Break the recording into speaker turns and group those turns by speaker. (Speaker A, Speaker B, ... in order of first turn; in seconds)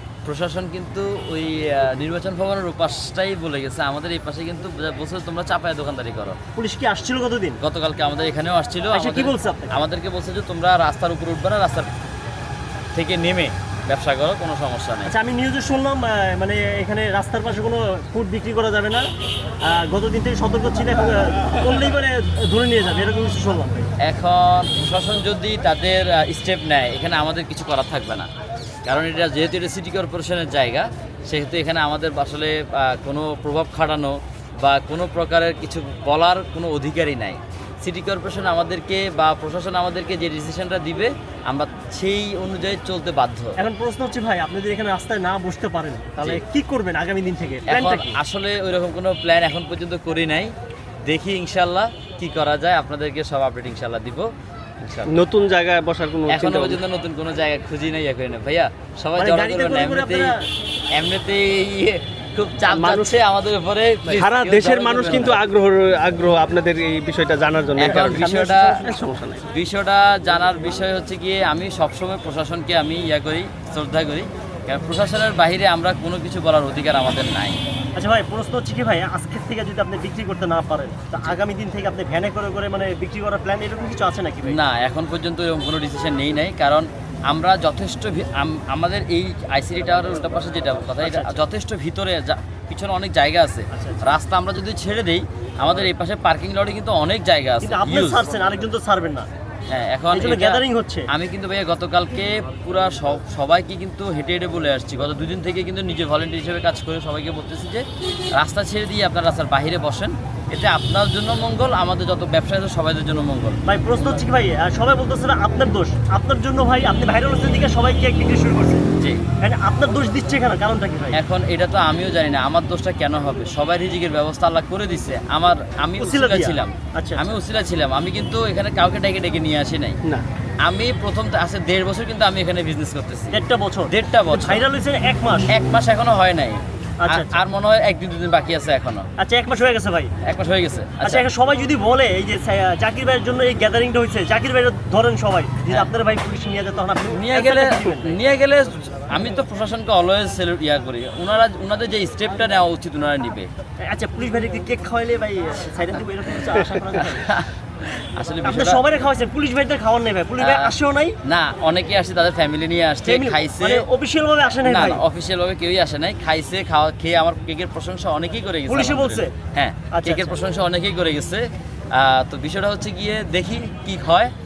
Speaker A: 0.2-6.4, 7.6-11.9, 12.9-15.1, 24.0-28.3, 28.9-43.5, 47.7-50.5, 51.0-54.3, 54.8-55.1, 56.3-60.3, 60.9-65.4, 67.8-68.9, 69.5-77.6, 84.5-98.2, 99.7-113.6, 121.1-130.0, 130.6-133.4, 133.9-134.6, 135.5-139.1, 140.2-141.3, 147.1-153.5, 156.9-158.8, 160.4-160.7, 161.2-163.8, 164.6-174.3
Speaker B: 6.6-7.6, 8.9-9.8, 15.1-19.1, 19.7-23.9, 43.6-48.2, 59.2-60.4, 67.9-69.0, 78.0-84.6, 91.0-91.4, 93.7-94.1, 97.6-99.3, 100.1-101.1, 113.7-118.8, 119.4-121.2, 126.0-127.2, 133.3-135.5, 137.0-137.4, 139.2-140.1, 141.0-148.2, 153.8-157.3, 158.4-161.2, 163.1-165.0, 168.7-169.3, 169.9-170.4
Speaker C: 55.1-56.8, 62.6-63.2, 64.0-69.5